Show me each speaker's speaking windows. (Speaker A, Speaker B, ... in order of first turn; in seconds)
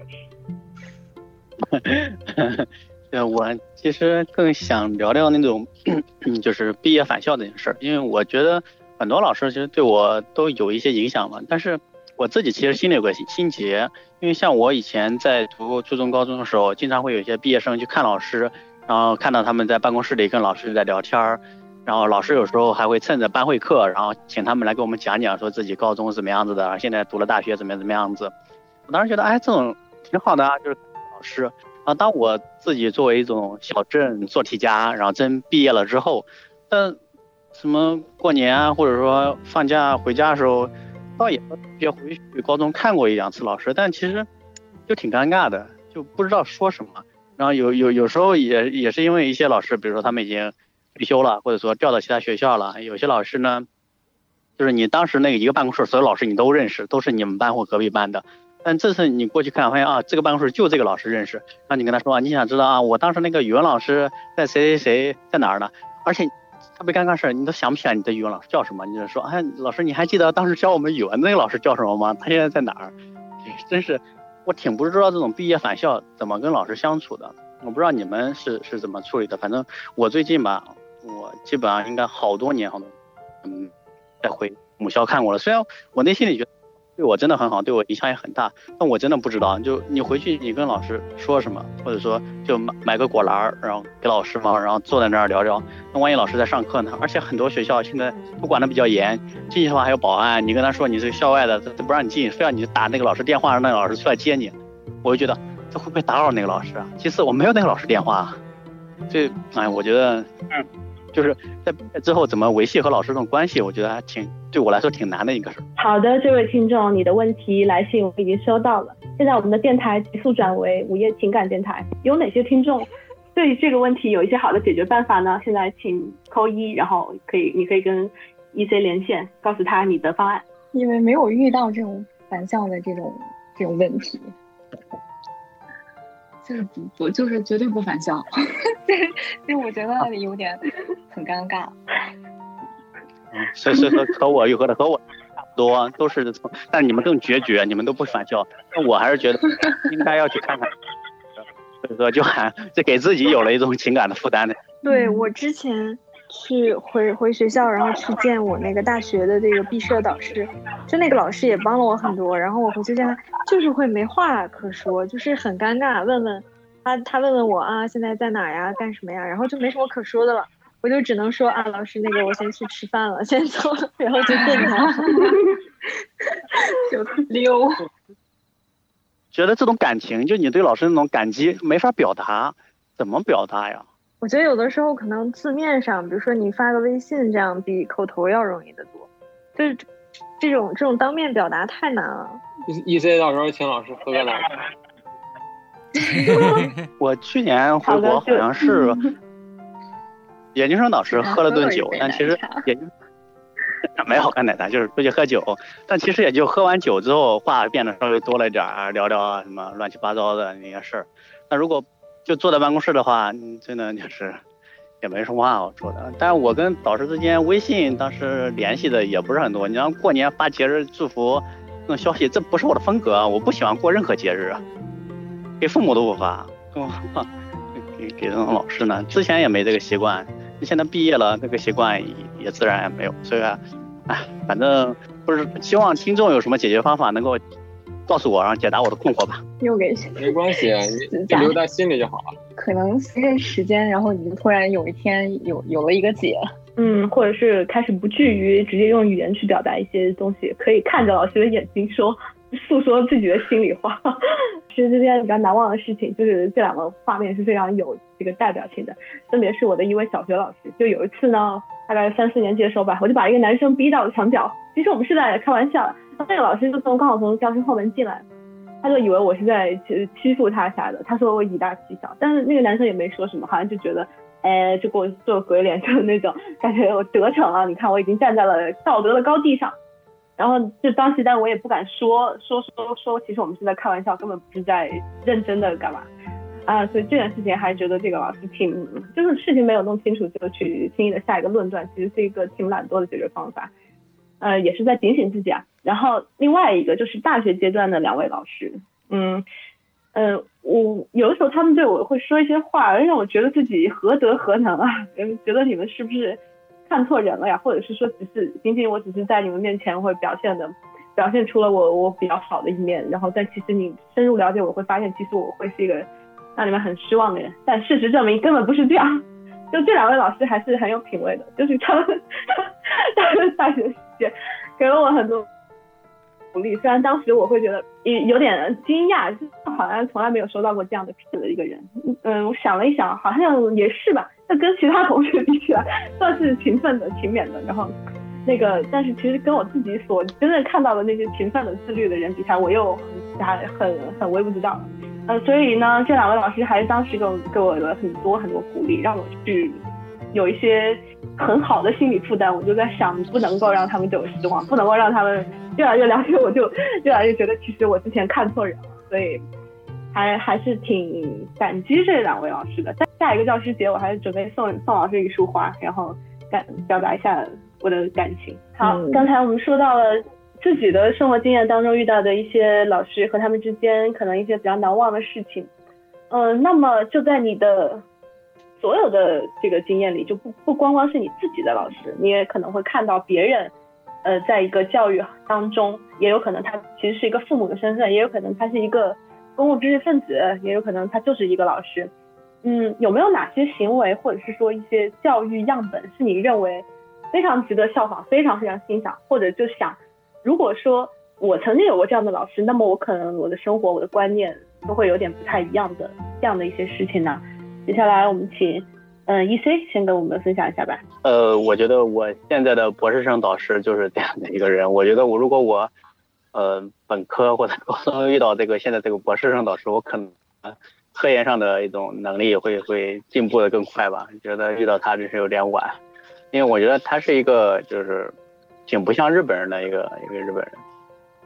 Speaker A: 1.7-28.3, 28.9-37.0, 37.5-44.3, 44.9-53.6, 54.6-72.9, 73.5-82.9, 83.4-83.7, 84.2-108.4, 109.1-115.6, 143.3-145.0, 145.5-150.7, 151.8-154.5, 179.3-183.8, 197.0-199.0, 200.5-202.9, 203.9-214.4, 215.0-224.6, 225.6-227.3, 227.8-237.4, 238.1-239.4, 411.2-415.9, 416.5-426.0, 426.5-428.3, 428.9-430.8
Speaker B: 115.8-130.4, 174.0-175.3, 197.8-198.5, 246.8-254.0, 254.7-268.2, 268.8-279.8, 280.4-286.1, 286.7-293.7, 294.4-299.4, 300.1-322.6, 323.1-325.4, 326.5-337.9, 338.4-349.8, 350.3-359.4, 360.1-375.7, 376.3-378.0, 378.8-383.7, 384.2-392.1, 392.6-411.0
Speaker C: 130.7-134.3, 136.4-138.3, 138.8-141.8, 154.9-155.2, 174.3-175.3, 176.8-177.8, 196.1-196.6, 201.1-202.7, 239.6-241.6, 242.6-246.4
Speaker D: 154.8-174.7, 184.2-189.8, 190.4-192.4, 368.8-369.2
Speaker E: 192.7-194.5, 240.2-242.3